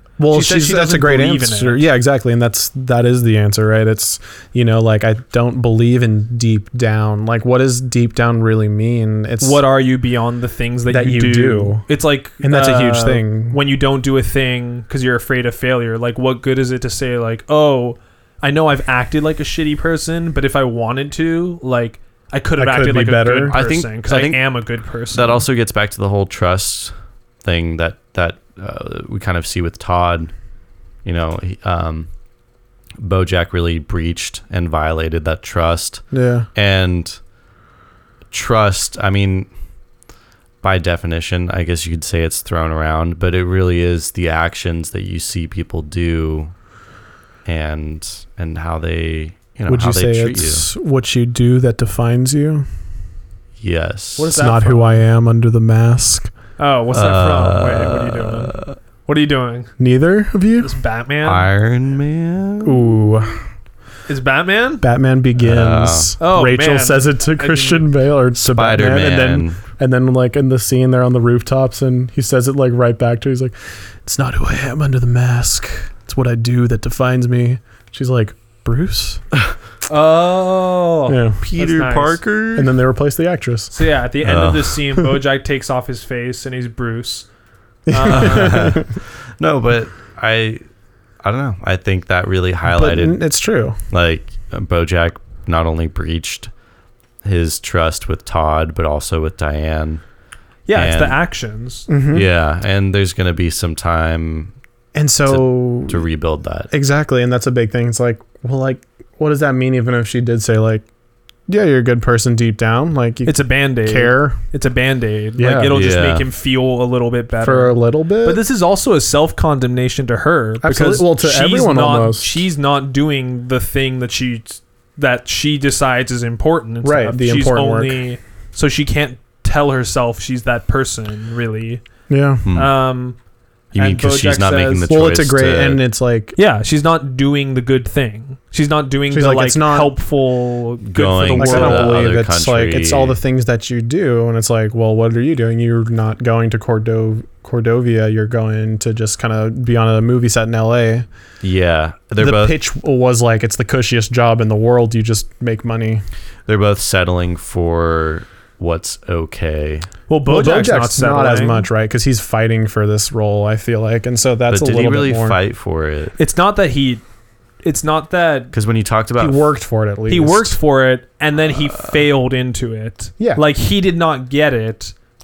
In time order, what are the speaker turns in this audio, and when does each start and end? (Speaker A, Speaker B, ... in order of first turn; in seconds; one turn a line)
Speaker A: 0.2-9.6
Speaker B: 0.3-1.8
Speaker B: 9.4-25.4
Speaker A: 10.9-11.9
Speaker A: 12.4-13.6
Speaker A: 22.6-23.6
Speaker C: 23.5-30.3
Speaker C: 31.0-32.1
Speaker C: 33.0-37.2
Speaker A: 36.1-36.5
Speaker C: 38.3-39.5
Speaker C: 40.6-46.5
Speaker C: 47.5-50.7
Speaker A: 49.7-52.7
Speaker C: 53.6-54.4
Speaker B: 54.2-55.0
Speaker A: 54.3-56.3
Speaker B: 56.6-59.7
Speaker C: 56.9-58.8
Speaker A: 59.8-60.7
Speaker B: 60.6-61.5
Speaker C: 61.2-62.8
Speaker A: 62.6-63.5
Speaker B: 64.1-64.8
Speaker A: 64.8-79.2
Speaker C: 65.4-66.2
Speaker B: 66.2-67.9
Speaker C: 68.3-69.6
Speaker B: 79.9-82.2
Speaker A: 81.1-81.4
Speaker C: 81.4-82.7
Speaker A: 82.5-83.7
Speaker B: 83.7-87.3
Speaker C: 84.2-84.8
Speaker A: 87.9-88.8
Speaker B: 87.9-88.8
Speaker C: 88.2-90.6
Speaker C: 91.2-93.2
Speaker A: 92.7-93.8
Speaker C: 93.9-96.5
Speaker C: 97.2-100.0
Speaker B: 100.7-101.9
Speaker C: 100.7-101.2
Speaker A: 101.9-102.3
Speaker C: 102.1-104.5
Speaker A: 105.0-106.0
Speaker C: 105.3-106.7
Speaker A: 106.7-110.9
Speaker A: 111.5-114.4
Speaker B: 113.2-131.8
Speaker A: 115.4-115.8
Speaker C: 115.7-116.3
Speaker A: 117.4-118.4
Speaker A: 120.6-122.3
Speaker A: 126.8-128.0
Speaker A: 132.1-132.5
Speaker C: 132.4-132.8
Speaker B: 132.5-133.2
Speaker C: 133.7-135.8
Speaker B: 133.7-134.9
Speaker A: 134.9-136.4
Speaker B: 136.4-141.9
Speaker A: 139.1-140.0
Speaker C: 140.8-143.2
Speaker A: 141.4-151.1
Speaker C: 151.4-152.6
Speaker A: 152.2-156.0
Speaker C: 156.5-159.9
Speaker B: 160.1-161.7
Speaker A: 160.2-165.4
Speaker C: 164.5-166.2
Speaker B: 166.2-167.0
Speaker B: 167.6-168.5
Speaker C: 168.5-169.5
Speaker A: 169.2-170.6
Speaker B: 170.1-174.9